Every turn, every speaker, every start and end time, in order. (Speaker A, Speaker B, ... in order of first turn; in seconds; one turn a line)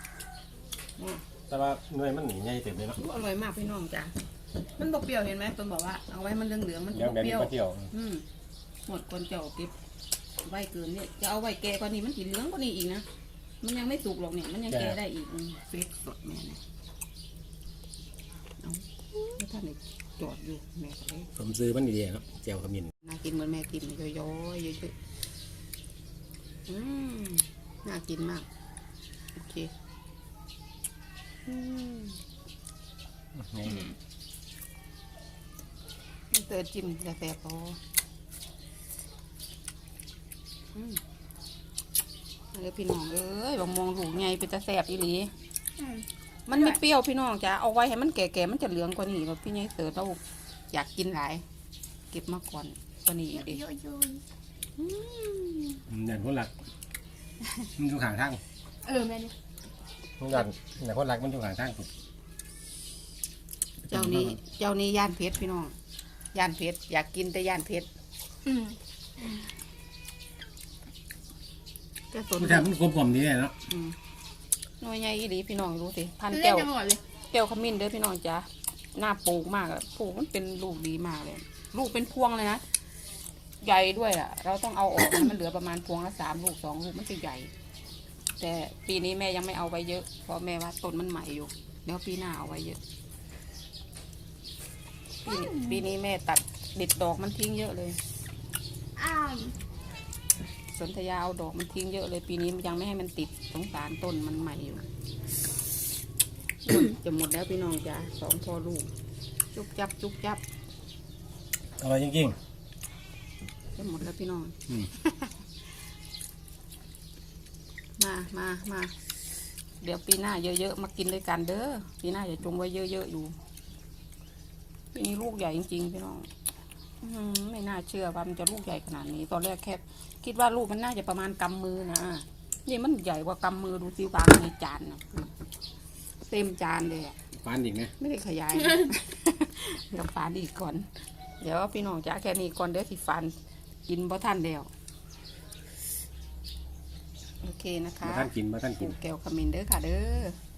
Speaker A: 1.0-1.2
Speaker B: 1.5-3.0
Speaker A: 3.0-4.2
Speaker A: 4.7-8.2
Speaker B: 6.9-7.9
Speaker A: 8.8-9.8
Speaker A: 10.4-13.1
Speaker A: 13.6-16.6
Speaker B: 14.7-15.0
Speaker A: 18.6-21.3
Speaker B: 21.4-22.9
Speaker A: 23.0-24.9
Speaker A: 26.7-28.5
Speaker A: 29.3-29.7
Speaker A: 31.4-32.2
Speaker B: 33.3-33.9
Speaker A: 36.3-37.8
Speaker A: 40.7-41.0
Speaker A: 42.5-45.3
Speaker C: 45.8-46.8
Speaker A: 46.5-51.4
Speaker A: 52.1-53.6
Speaker C: 53.4-54.2
Speaker A: 54.8-55.8
Speaker B: 55.9-56.5
Speaker B: 57.8-58.4
Speaker C: 58.9-59.3
Speaker B: 60.2-61.9
Speaker B: 63.9-64.4
Speaker A: 63.9-65.8
Speaker A: 66.3-67.9
Speaker C: 68.4-68.8
Speaker A: 72.1-72.7
Speaker B: 72.4-73.6
Speaker A: 73.7-74.0
Speaker A: 74.8-76.8
Speaker C: 76.4-77.0
Speaker A: 77.3-82.6
Speaker A: 83.6-87.5
Speaker A: 88.4-92.8
Speaker A: 95.2-98.0
Speaker C: 95.3-95.8
Speaker C: 99.0-99.5
Speaker A: 100.7-104.8
Speaker A: 106.7-108.9
Speaker A: 109.5-110.4
Speaker B: 111.8-112.4
Speaker A: 113.7-115.3
Speaker A: 118.0-119.0
Speaker A: 119.8-123.3
Speaker A: 124.9-126.3
Speaker A: 127.0-135.3
Speaker A: 136.2-137.2
Speaker B: 137.3-137.9
Speaker A: 138.0-140.9
Speaker A: 141.4-143.3
Speaker A: 143.9-144.7
Speaker A: 147.4-150.4
Speaker B: 148.0-148.9